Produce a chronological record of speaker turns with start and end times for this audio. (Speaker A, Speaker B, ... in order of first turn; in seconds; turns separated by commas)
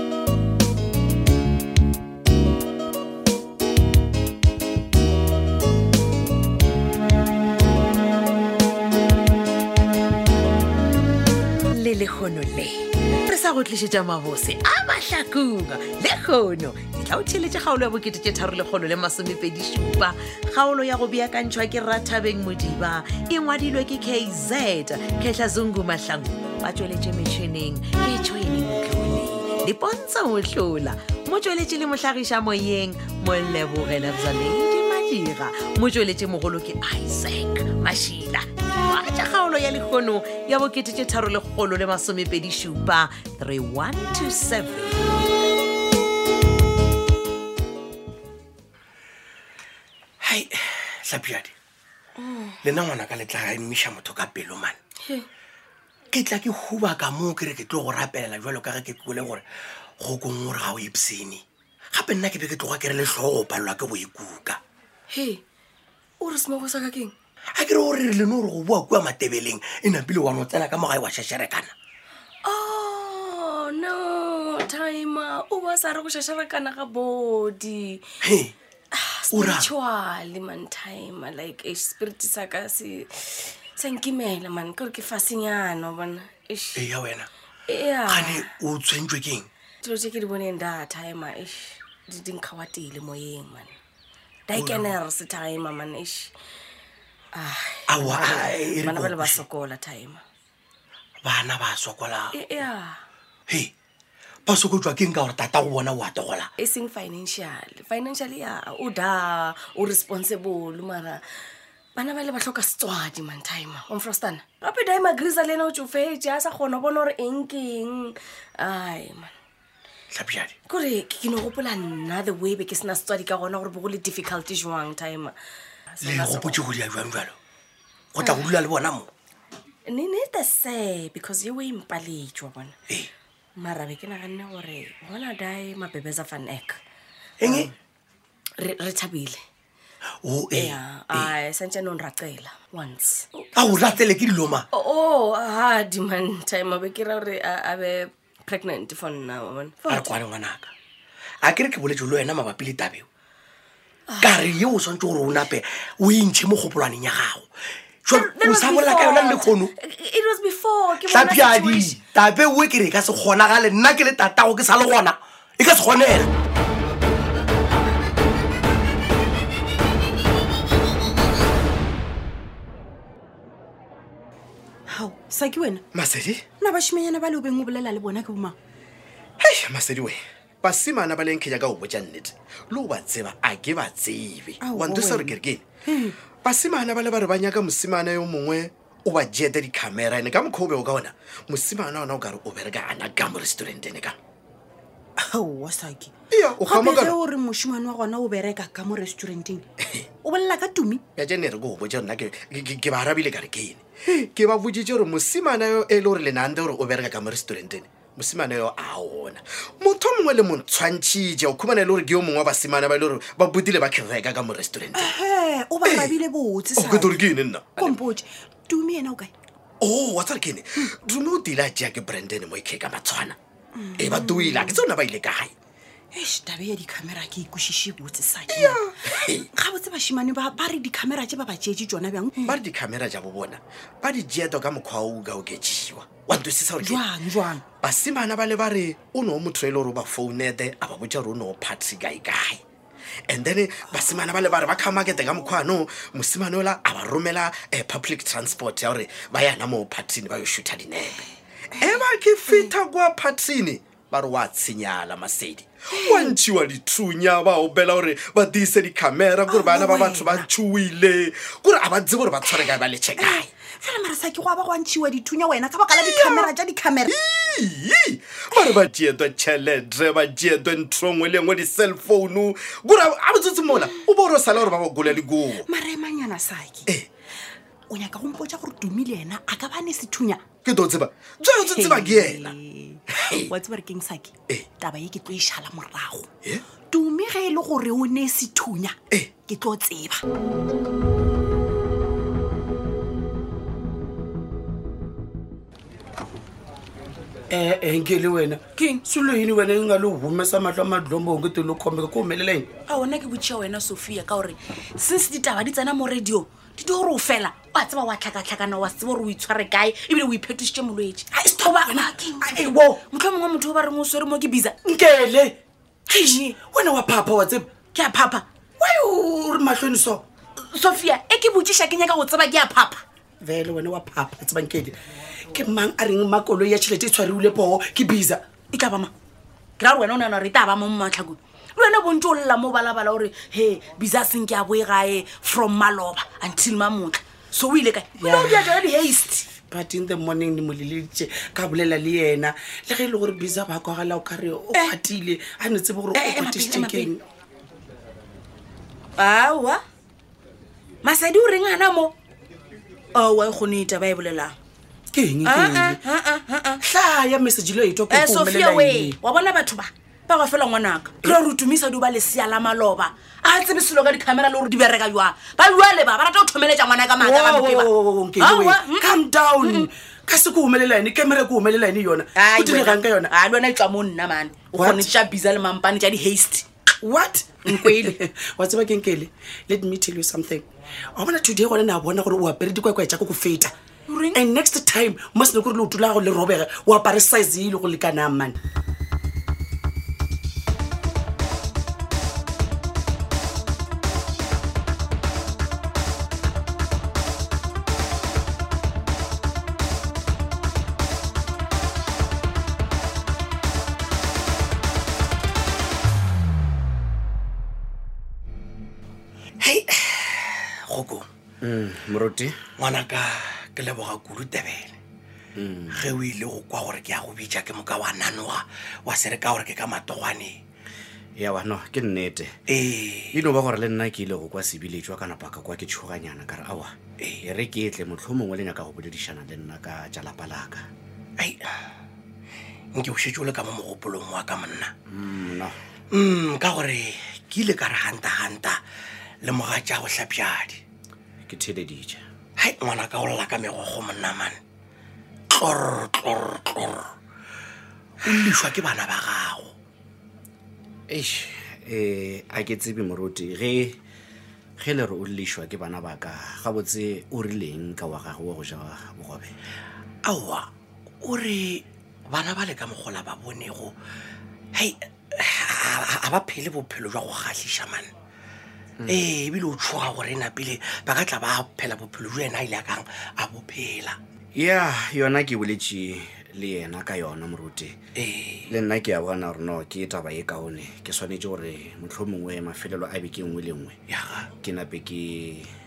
Speaker A: 11.7-45.0, Speaker B: 50.2-51.5, Speaker C: 52.2-52.6, Speaker B: 52.6-54.8, Speaker B: 56.1-59.4, Speaker B: 60.0-64.6, Speaker C: 65.1-65.4, Speaker C: 66.2-67.1, Speaker B: 67.5-71.7, Speaker C: 72.4-78.0, Speaker B: 78.2-78.5, Speaker C: 78.9-86.8, Speaker B: 79.3-79.7, Speaker B: 86.8-87.3, Speaker C: 87.7-88.5, Speaker B: 88.1-89.5, Speaker C: 89.8-93.8, Speaker C: 94.5-96.3, Speaker B: 94.5-94.9, Speaker C: 97.3-100.2, Speaker B: 97.9-99.4, Speaker B: 101.2-102.6, Speaker C: 102.3-103.0, Speaker B: 104.5-106.5, Speaker C: 106.6-111.2, Speaker C: 112.0-119.3, Speaker B: 120.1-120.6, Speaker C: 120.7-125.3, Speaker C: 125.9-126.7, Speaker B: 126.0-127.3, Speaker B: 128.1-129.1, Speaker C: 128.2-128.5, Speaker C: 129.9-132.8, Speaker C: 133.6-136.8, Speaker B: 137.4-137.7, Speaker C: 138.6-139.4, Speaker B: 140.2-141.3, Speaker C: 140.5-143.5, Speaker B: 143.6-144.7, Speaker C: 144.7-150.2, Speaker B: 149.8-150.7, Speaker B: 151.4-153.0, Speaker C: 154.1-154.4, Speaker B: 154.2-157.5, Speaker B: 158.0-159.7, Speaker C: 158.1-162.0, Speaker B: 161.0-166.3, Speaker D: 174.9-175.8, Speaker E: 175.9-176.5, Speaker D: 176.6-178.5, Speaker E: 179.4-185.7, Speaker D: 184.6-186.1, Speaker E: 186.4-194.2, Speaker D: 195.2-199.6, Speaker E: 196.3-197.2, Speaker E: 199.8-200.1, Speaker D: 200.2-201.0, Speaker E: 201.2-215.1, Speaker D: 214.9-219.3, Speaker E: 215.8-216.2, Speaker E: 216.8-218.0, Speaker E: 219.8-223.4, Speaker D: 223.8-224.8, Speaker E: 224.0-225.5, Speaker D: 226.1-232.6, Speaker E: 228.5-229.5, Speaker E: 232.4-237.1, Speaker D: 236.8-237.6, Speaker E: 237.8-242.6, Speaker E: 243.3-263.5, Speaker D: 251.9-252.7, Speaker D: 255.9-256.4, Speaker D: 259.5-260.5, Speaker D: 262.6-267.1, Speaker E: 265.9-266.5, Speaker E: 267.0-275.6, Speaker D: 268.5-268.8, Speaker D: 275.6-276.9, Speaker D: 277.9-280.4, Speaker E: 280.6-282.6, Speaker D: 281.5-286.3, Speaker E: 283.1-283.5, Speaker D: 286.8-290.2, Speaker E: 289.1-289.4, Speaker F: 297.5-302.7, Speaker G: 302.9-314.8, Speaker F: 312.5-313.0, Speaker F: 314.8-315.6, Speaker G: 316.1-316.6, Speaker F: 316.3-317.8, Speaker G: 317.9-318.4, Speaker F: 318.8-320.2, Speaker G: 320.6-323.0, Speaker F: 323.4-325.0, Speaker F: 325.5-328.4, Speaker G: 328.7-329.1, Speaker G: 329.8-339.6, Speaker F: 338.2-338.8, Speaker F: 339.5-347.2, Speaker G: 344.7-345.0, Speaker G: 346.1-347.1, Speaker G: 349.2-349.7, Speaker G: 351.0-352.1, Speaker G: 353.1-354.5, Speaker F: 355.1-356.0, Speaker G: 355.4-356.8, Speaker F: 356.8-359.2, Speaker G: 358.1-369.9, Speaker F: 367.2-373.3, Speaker G: 372.4-376.6, Speaker F: 374.7-375.1, Speaker F: 377.0-383.7, Speaker G: 377.6-378.2, Speaker G: 384.1-384.4, Speaker F: 384.3-388.6, Speaker B: 409.6-411.3, Speaker H: 411.6-412.6, Speaker B: 412.8-415.0, Speaker H: 415.5-416.1, Speaker B: 415.9-420.6, Speaker H: 421.4-422.6, Speaker B: 422.7-423.5, Speaker H: 423.3-430.9, Speaker B: 432.9-434.9, Speaker H: 435.1-435.8, Speaker B: 436.1-438.8, Speaker B: 439.4-440.8, Speaker H: 441.4-442.2, Speaker B: 442.6-444.6, Speaker B: 445.5-447.1, Speaker B: 448.2-449.7, Speaker H: 451.1-454.0, Speaker H: 454.8-459.5, Speaker B: 460.2-460.7, Speaker B: 461.2-463.9, Speaker B: 464.7-468.1, Speaker B: 469.1-474.2, Speaker H: 474.5-478.0, Speaker B: 478.1-478.7, Speaker H: 478.7-484.0, Speaker B: 484.1-484.5, Speaker H: 484.6-485.7